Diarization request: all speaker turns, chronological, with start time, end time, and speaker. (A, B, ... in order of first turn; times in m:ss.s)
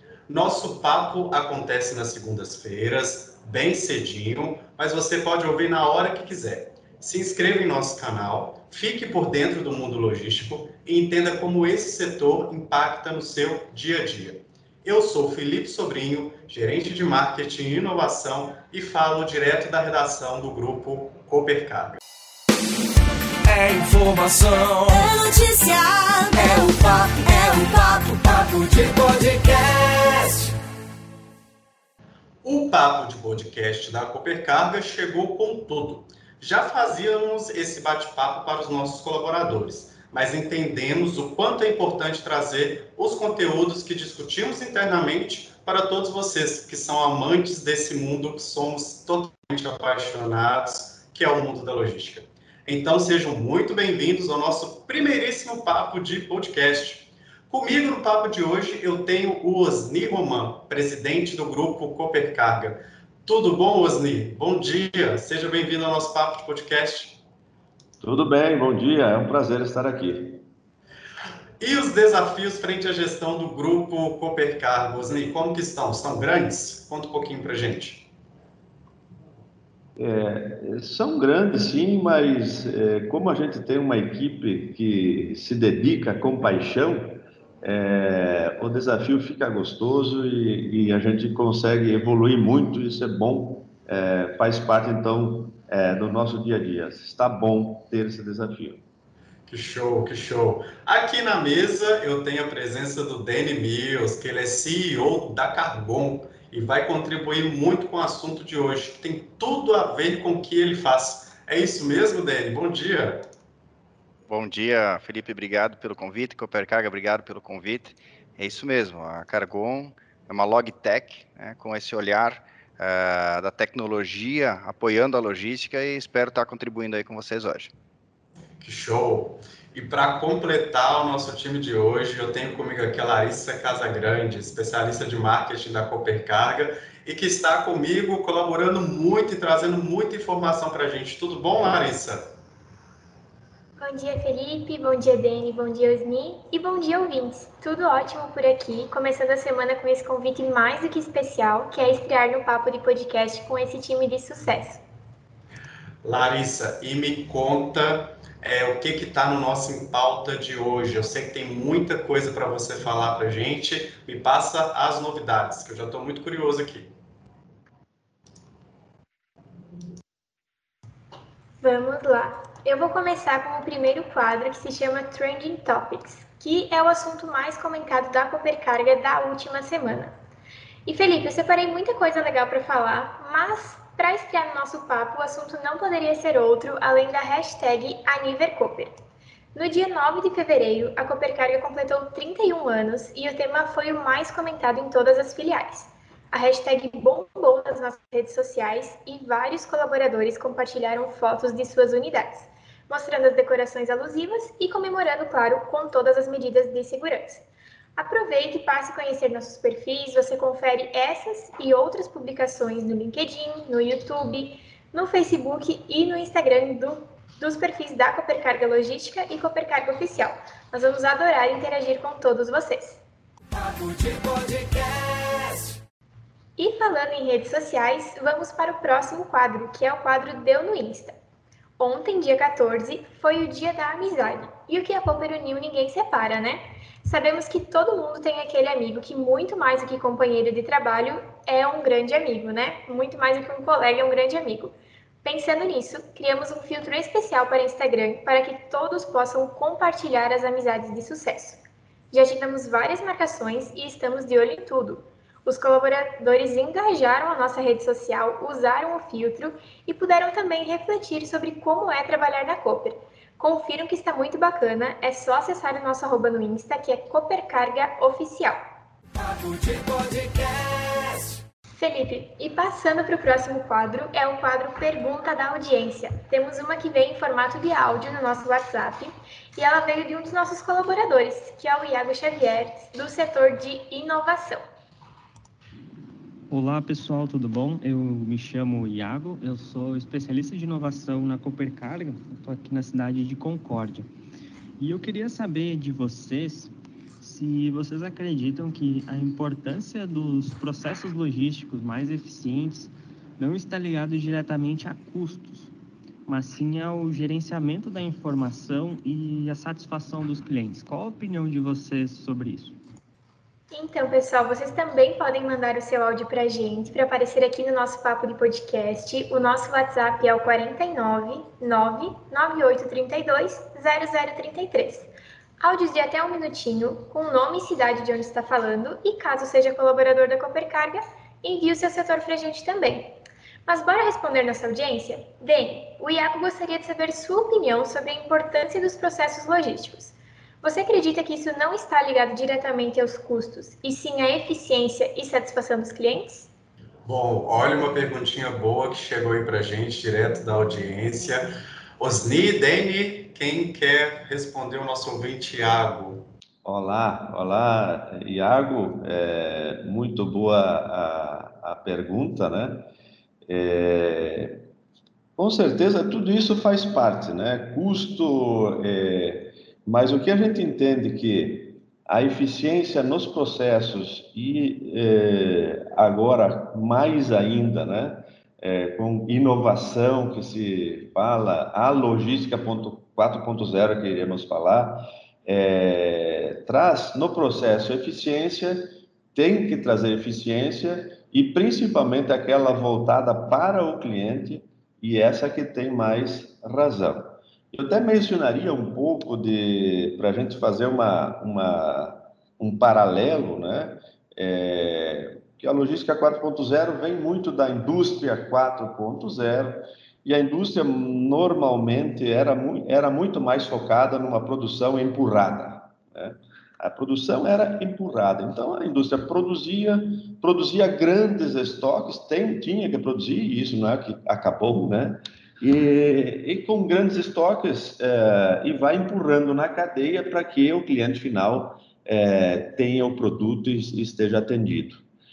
0:00.3-0:22.0 A
0:23.4-0:30.5 B
0:32.4-1:07.2 A
1:08.0-1:10.4 C
1:11.6-1:18.1 A
1:20.0-1:38.8 C
1:39.5-1:53.2 A
1:54.3-2:07.7 D
2:08.6-2:22.2 A
2:23.8-2:34.8 E
2:36.0-2:46.9 A
2:51.6-3:00.1 E
3:00.8-3:08.9 E
3:09.5-3:27.4 E
3:28.0-3:43.0 E
3:43.5-3:45.8 B
3:46.6-3:51.1 E
3:51.8-4:11.6 E
4:12.1-4:28.6 E
4:29.2-4:31.4 B
4:31.8-4:44.6 E
4:46.5-4:54.1 F
4:54.8-5:05.7 F
5:06.3-5:12.8 F
5:13.7-5:25.1 E
5:25.6-5:33.1 E
5:33.6-5:46.5 E
5:47.0-5:51.5 A
5:52.0-5:56.2 A
5:56.6-6:02.9 C
6:03.4-6:04.6 C
6:05.4-7:15.0 C